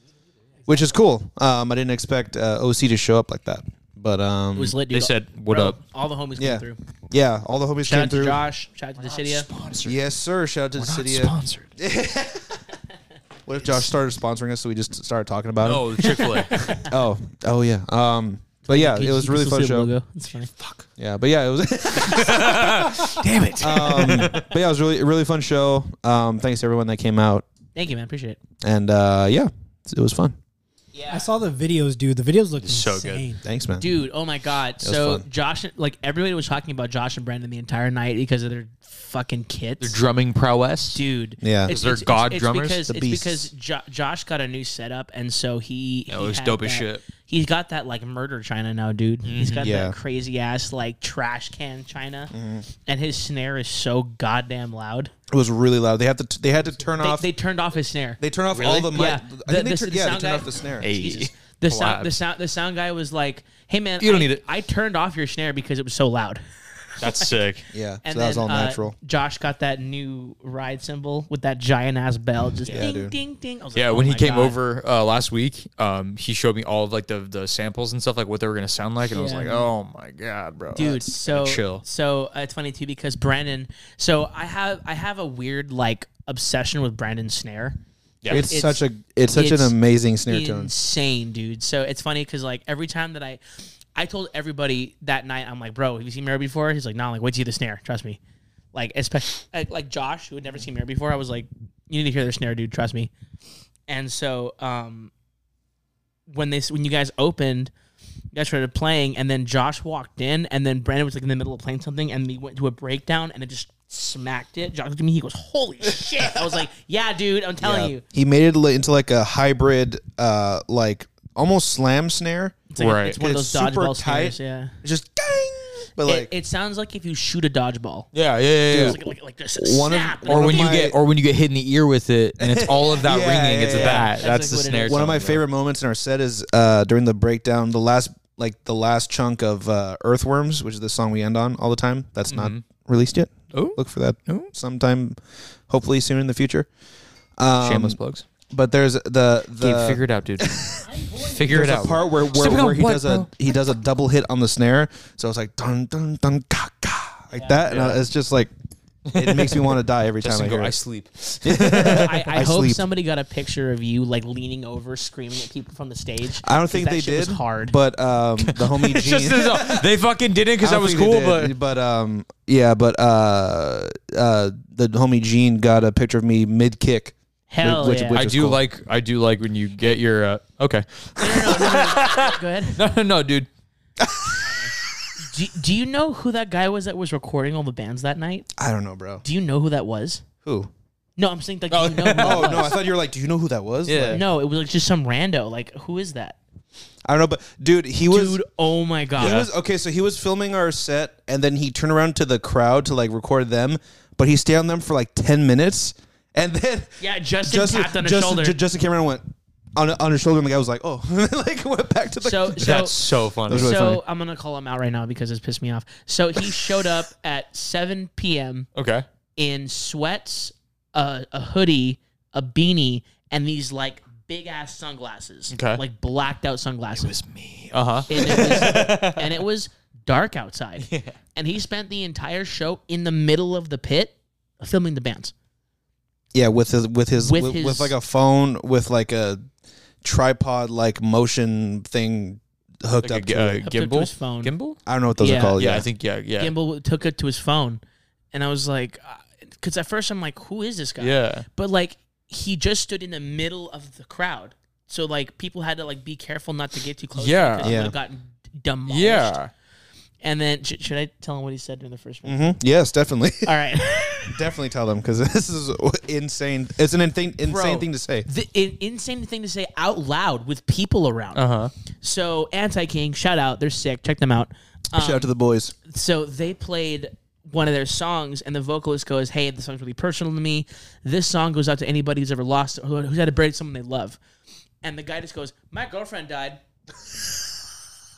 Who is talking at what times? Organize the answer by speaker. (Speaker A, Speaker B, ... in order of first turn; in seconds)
Speaker A: 0.7-4.8, 6.4-8.4, 9.8-12.5, 13.5-19.9, 21.0-27.4, 28.6-30.4, 33.4-34.0, 34.8-35.3, 41.4-41.8, 42.9-43.5, 49.6-50.0, 52.3-52.7, 55.3-57.3, 58.2-60.9, 67.7-69.0, 72.7-73.2, 80.8-81.0, 88.3-90.7, 117.6-126.3, 128.7-129.0, 129.6-131.0, 132.4-134.1, 134.9-145.2, 145.7-146.7, 147.4-148.0, 148.5-158.5, 159.2-160.8, 161.4-162.8, 166.4-169.9, 170.6-178.6, 184.0-184.4, 188.6-189.2, 190.4-190.7, 192.2-194.2, 197.1-198.4, 199.2-212.9, 213.5-214.0, 236.3-239.4, 240.0-243.6, 244.9-245.9, 257.6-257.9, 262.2-263.5, 264.3-268.3, 274.9-275.8
Speaker B: 4.5-6.8, 7.8-9.5, 16.1-16.9, 18.6-20.5, 27.8-28.4, 30.9-31.3, 33.8-40.0, 40.9-55.1, 57.0-66.4, 67.0-67.3, 68.0-74.6, 79.1-79.7, 80.7-87.8, 88.3-88.8, 89.3-89.8, 90.3-93.4, 94.0-98.2, 98.7-103.1, 103.9-105.1, 106.3-107.7, 108.3-118.0, 122.7-124.8, 126.0-128.1, 128.7-130.8, 133.7-135.1, 157.3-157.6, 161.8-167.8, 177.5-178.2, 181.2-182.8, 184.4-188.5, 189.2-190.2, 191.2-192.8, 194.1-196.4, 198.1-199.5, 207.0-208.6, 212.2-213.0, 213.5-218.7, 219.4-227.2, 228.1-235.3, 237.2-237.9, 243.6-244.5, 245.2-245.6, 246.4-247.8, 248.3-259.4, 260.2-262.5, 263.4-264.4, 267.4-271.5, 272.0-275.3, 275.9-284.2, 284.8-286.6
Speaker C: 4.9-5.8, 9.0-10.0, 10.8-11.7, 15.6-16.8, 20.6-20.9, 22.0-24.5, 32.6-33.3, 39.8-41.0, 41.7-42.9, 46.1-47.0, 49.2-49.7, 58.5-58.9, 60.8-62.1, 64.0-64.4, 67.0-67.7, 72.6-72.9, 73.8-81.8, 88.2-88.5, 122.8-123.2, 128.1-129.0, 130.3-135.4, 142.3-142.6, 143.5-144.5, 147.6-148.3, 149.6-153.3, 157.7-158.0, 159.1-162.4, 168.4-171.6, 178.1-183.5, 191.7-192.7, 193.9-194.2, 212.6-213.8, 218.8-219.1, 225.5-225.8, 227.0-229.4, 230.8-231.2, 243.0-244.8, 245.6-246.5, 251.0-251.5, 257.2-257.8, 258.9-259.5, 271.4-271.7
Speaker D: 31.1-33.4